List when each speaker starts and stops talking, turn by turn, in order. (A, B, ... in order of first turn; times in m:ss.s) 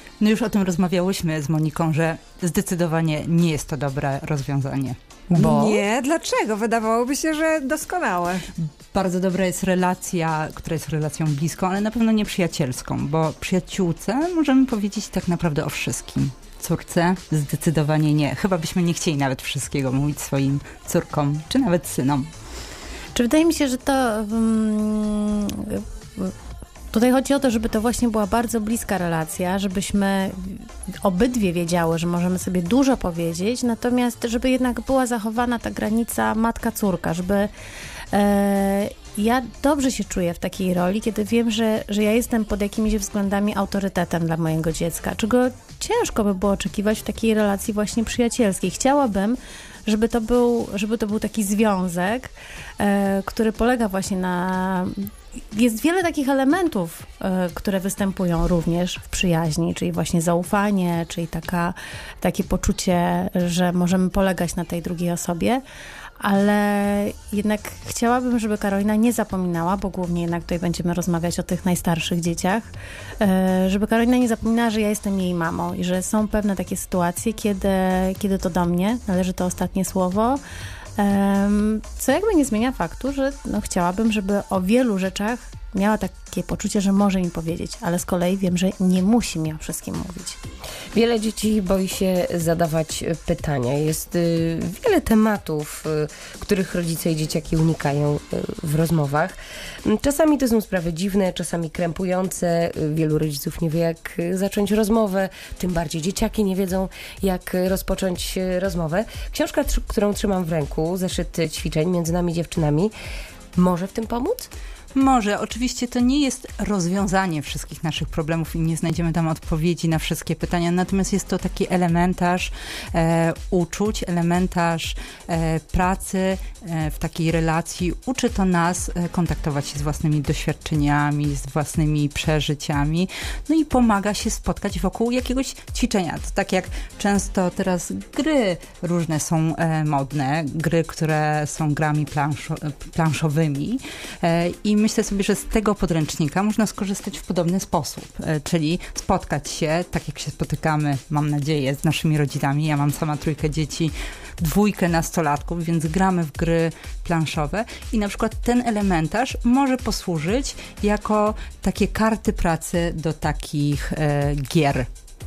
0:00.2-0:05.0 A
0:05.3-0:05.8 B
0:05.4-0:08.5 C
0:08.7-0:22.3 A
0:23.2-0:26.3 D
0:26.9-0:37.5 D
0:38.1-1:05.6 D
1:06.2-1:20.4 D
1:21.0-1:30.4 D
1:30.9-1:52.9 B
1:53.6-1:54.5 B
1:55.0-2:44.9 A